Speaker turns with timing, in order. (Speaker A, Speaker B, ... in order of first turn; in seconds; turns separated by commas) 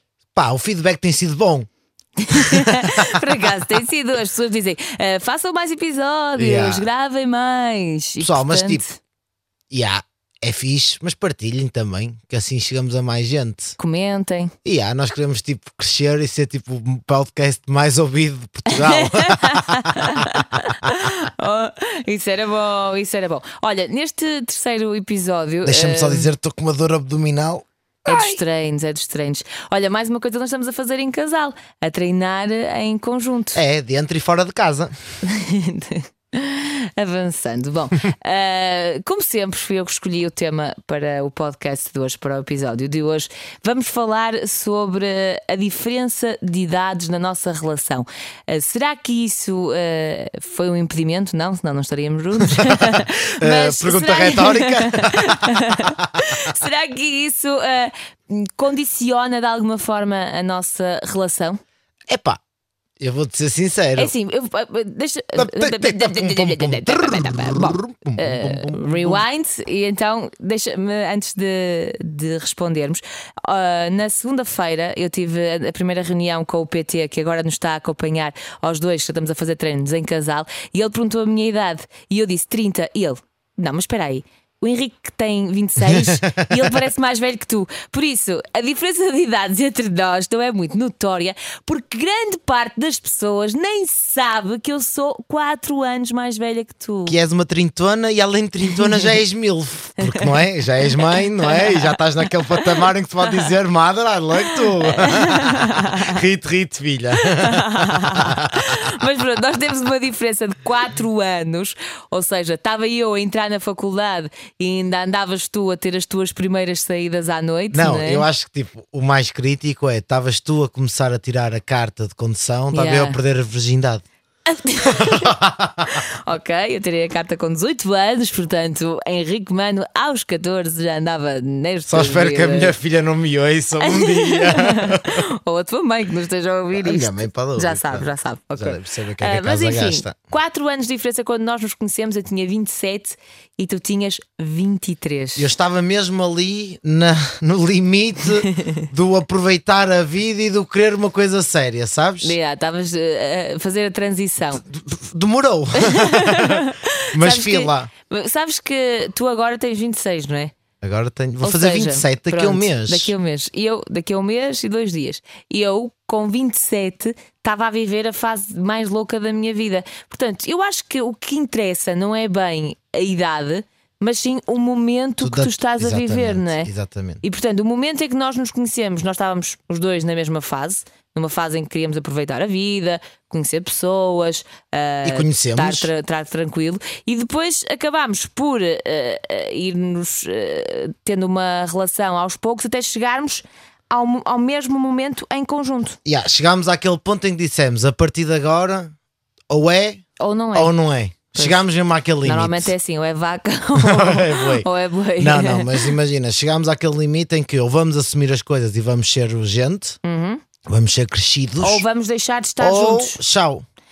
Speaker A: 0.3-1.7, Speaker B: 2.2-9.0, Speaker A: 2.4-3.2, Speaker A: 6.4-6.9, Speaker A: 8.2-8.8, Speaker A: 9.7-13.8, Speaker B: 13.8-14.5, Speaker A: 14.7-20.4, Speaker B: 18.7-26.3, Speaker A: 25.6-28.4, Speaker B: 28.1-33.6, Speaker A: 33.5-34.9, Speaker B: 35.2-61.6, Speaker A: 53.4-55.9, Speaker A: 62.1-62.4, Speaker A: 63.0-64.1, Speaker B: 64.0-97.2, Speaker A: 65.4-69.2, Speaker A: 85.8-86.7, Speaker A: 97.1-108.9, Speaker B: 98.8-99.1, Speaker B: 101.0-102.0, Speaker B: 104.5-106.2, Speaker B: 107.2-118.3, Speaker A: 117.7-124.0, Speaker B: 122.7-123.2, Speaker B: 124.5-132.8, Speaker A: 124.9-125.9, Speaker A: 131.9-135.1, Speaker B: 133.8-145.5, Speaker A: 136.7-140.1, Speaker A: 145.4-152.4, Speaker B: 152.2-154.6, Speaker A: 154.6-157.9, Speaker B: 155.8-160.5, Speaker A: 160.8-163.1, Speaker B: 161.4-176.7, Speaker A: 175.2-177.2, Speaker B: 177.2-196.0, Speaker A: 185.1-185.9, Speaker A: 196.1-198.9, Speaker A: 199.5-200.0, Speaker B: 200.2-200.7, Speaker A: 200.6-202.7, Speaker B: 201.3-201.7, Speaker B: 202.2-205.9, Speaker A: 203.8-204.7, Speaker A: 205.2-210.0, Speaker B: 210.0-210.4, Speaker A: 210.7-211.8, Speaker B: 211.6-213.2, Speaker A: 212.6-213.7